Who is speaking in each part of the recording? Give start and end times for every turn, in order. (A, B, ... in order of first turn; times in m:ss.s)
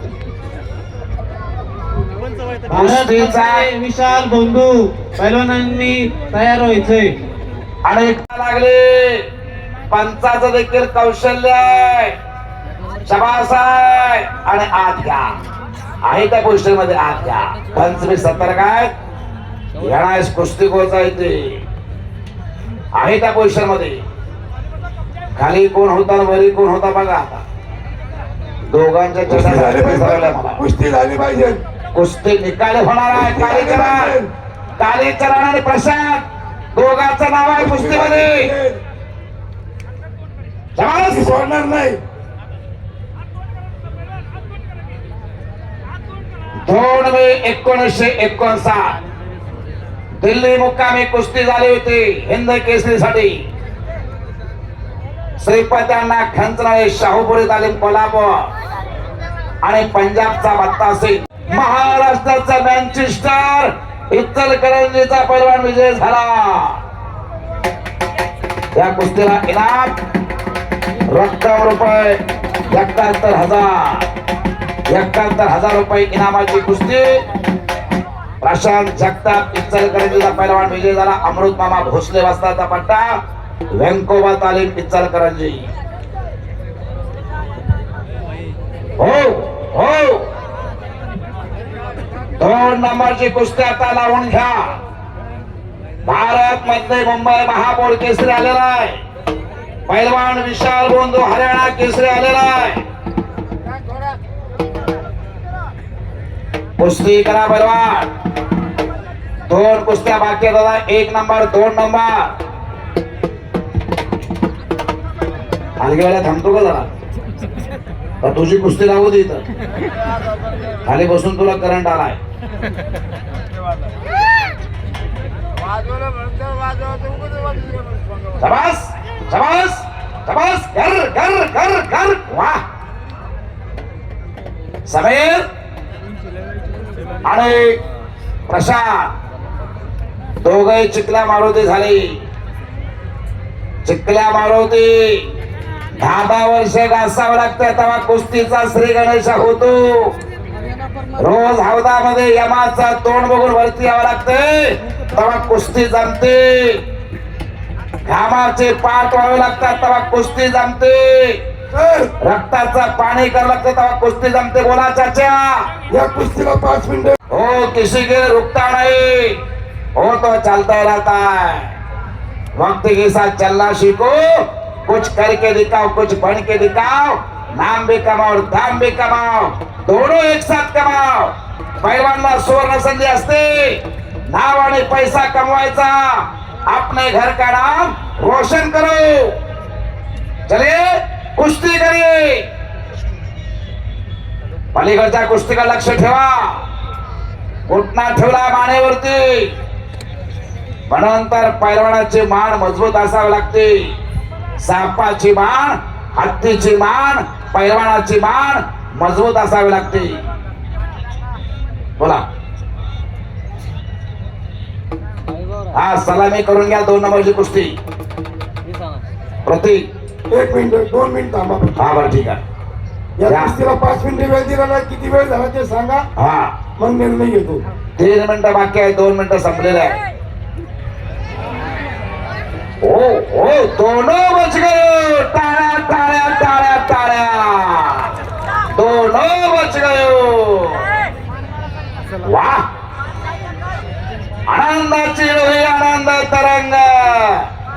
0:02.7-0:07.2 A
0:02.7-0:03.7 B
0:07.8-0:09.3 B
0:09.9-0:12.1 B
0:13.0-0:15.4 B
0:16.0-0:18.9 B
0:19.8-0:21.6 B
0:22.9-0:24.0 B
0:25.4-0:27.4 B
0:28.7-0:30.6 B
0:29.3-0:31.6 C
0:31.9-0:34.1 B
0:33.1-0:34.3 C
0:34.8-0:38.5 B
0:37.6-0:38.8 C
0:40.8-0:41.3 B
0:41.0-0:42.0 C
0:46.6-0:48.9 B
0:50.2-0:53.4 B
0:55.4-0:58.5 B
0:59.6-1:06.8 B
1:08.7-1:10.0 B
1:11.1-1:14.0 B
1:14.9-1:17.2 B
1:18.4-1:23.1 B
1:23.7-1:25.6 B
1:29.0-1:30.3 B
1:32.4-1:34.8 B
1:36.0-1:39.0 B
1:39.9-1:42.8 B
1:46.8-1:48.1 B
1:49.5-1:52.3 B
1:55.8-1:56.8 B
1:58.2-1:59.4 B
2:00.8-2:02.2 B
2:08.4-2:12.6 B
2:14.9-2:15.4 B
2:17.2-2:17.8 B
2:18.5-2:19.1 B
2:20.4-2:22.2 B
2:23.8-2:25.3 B
2:26.0-2:30.1 B
2:31.2-2:36.8 B
2:38.0-2:41.4 B
2:41.7-2:42.1 C
2:42.2-2:45.7 B
2:45.9-2:47.1 C
2:47.3-2:49.4 B
2:50.0-2:51.8 B
2:52.6-2:54.2 B
2:54.8-3:09.3 B
3:10.5-3:12.4 B
3:14.7-3:16.6 B
3:17.7-3:19.5 B
3:20.9-3:23.9 B
3:24.6-3:30.2 B
3:35.7-3:37.7 B
3:39.4-3:39.9 B
3:40.3-3:41.8 C
3:41.8-3:42.4 B
3:43.2-3:46.0 C
3:43.2-3:43.6 B
3:46.2-3:46.5 B
3:46.8-3:47.6 C
3:48.0-3:50.0 B
3:52.8-3:58.1 B
3:58.7-4:00.9 B
4:02.2-4:02.6 B
4:04.5-4:07.5 B